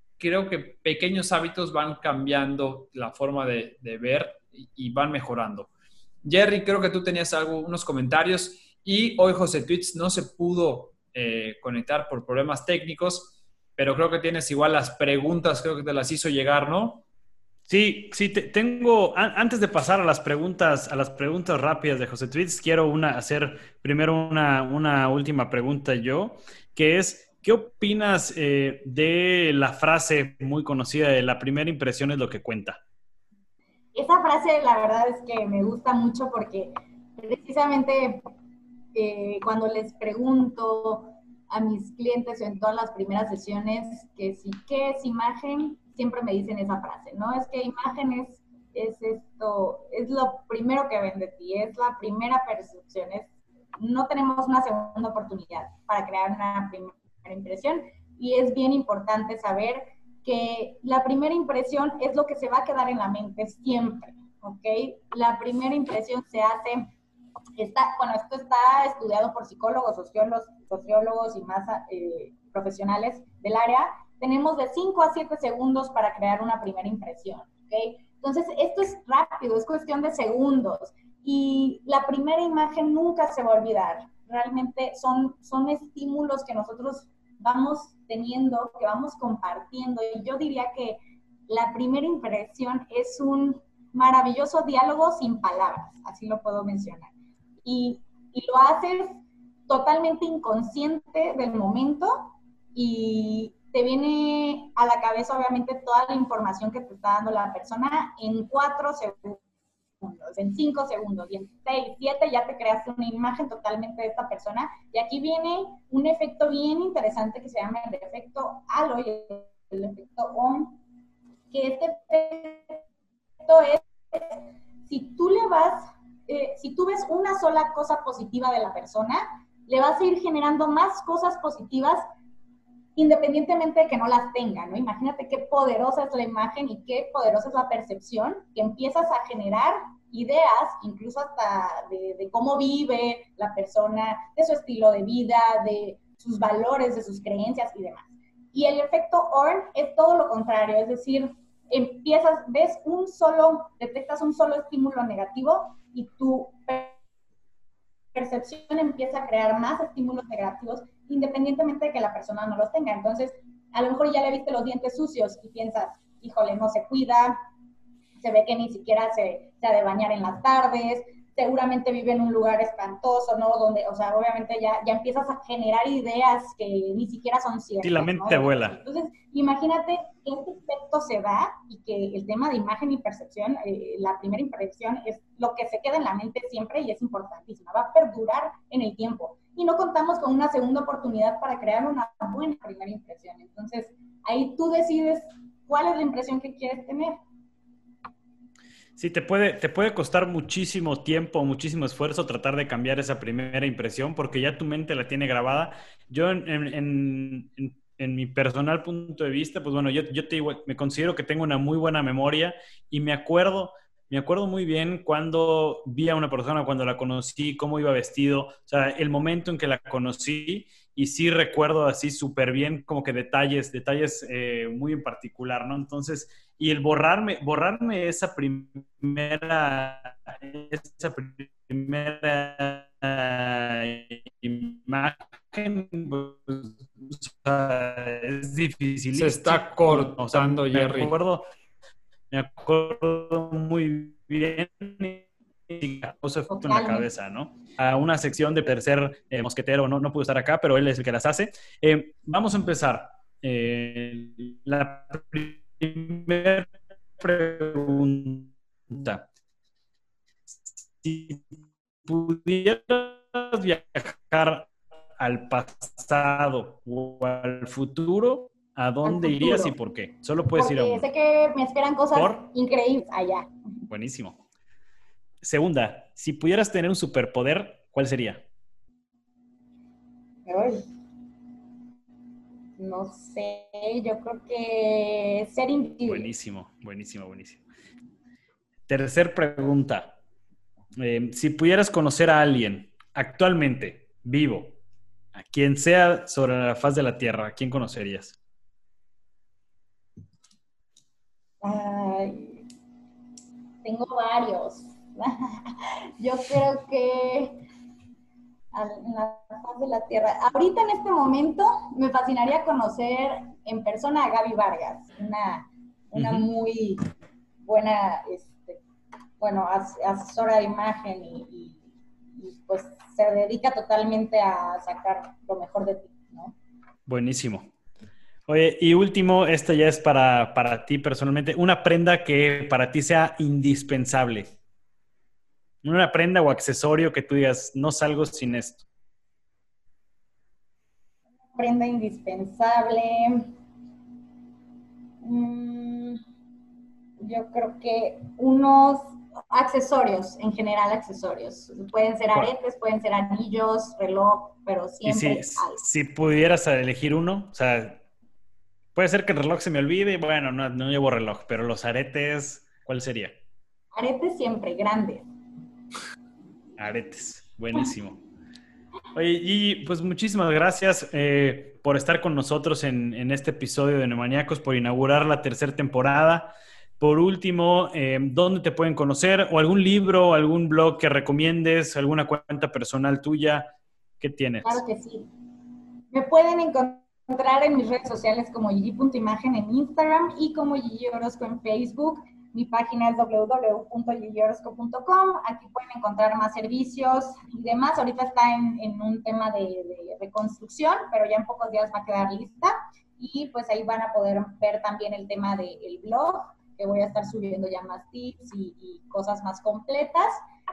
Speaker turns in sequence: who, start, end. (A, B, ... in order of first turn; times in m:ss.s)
0:00.2-0:05.7 A
0:06.2-0:17.0 A
0:17.7-0:32.8 B
0:33.9-0:38.2 C
0:38.9-1:06.9 C
1:07.6-1:37.1 C
1:37.6-1:49.4 C
1:50.0-2:00.8 C
2:01.5-2:02.8 C
2:03.4-2:12.0 C
2:13.0-2:37.0 C
2:38.1-2:47.4 C
2:48.2-3:17.2 C
2:57.8-2:58.8 B
3:19.0-4:01.5 B
3:59.1-4:01.1 A
4:02.3-4:19.2 B
4:06.5-4:07.1 C
4:20.5-4:21.4 B
4:22.0-4:31.1 B
4:29.0-4:29.8 C
4:30.5-4:33.5 C
4:32.1-4:32.4 B
4:33.9-4:34.4 B
4:35.4-4:38.4 B
4:40.4-4:40.9 C
4:42.8-4:46.3 C
4:46.0-4:47.6 B
4:48.9-4:50.1 B
4:51.0-4:54.8 B
4:55.3-4:58.3 B
5:01.6-5:02.6 C
5:03.8-5:07.6 C
5:08.7-5:17.0 C
5:16.1-5:16.4 B
5:17.6-5:18.8 C
5:19.4-5:21.8 C
5:22.4-5:26.5 C
5:27.1-5:27.7 B
5:28.5-5:34.5 B
5:35.8-5:38.8 B
5:41.5-5:43.5 C
5:45.2-5:46.2 C
5:47.2-5:55.8 C
5:55.0-5:58.0 B
5:59.0-6:03.3 B
6:03.9-6:05.2 C
6:06.8-6:08.2 B
6:09.1-6:24.8 B
6:24.6-6:25.3 C
6:26.1-6:50.4 C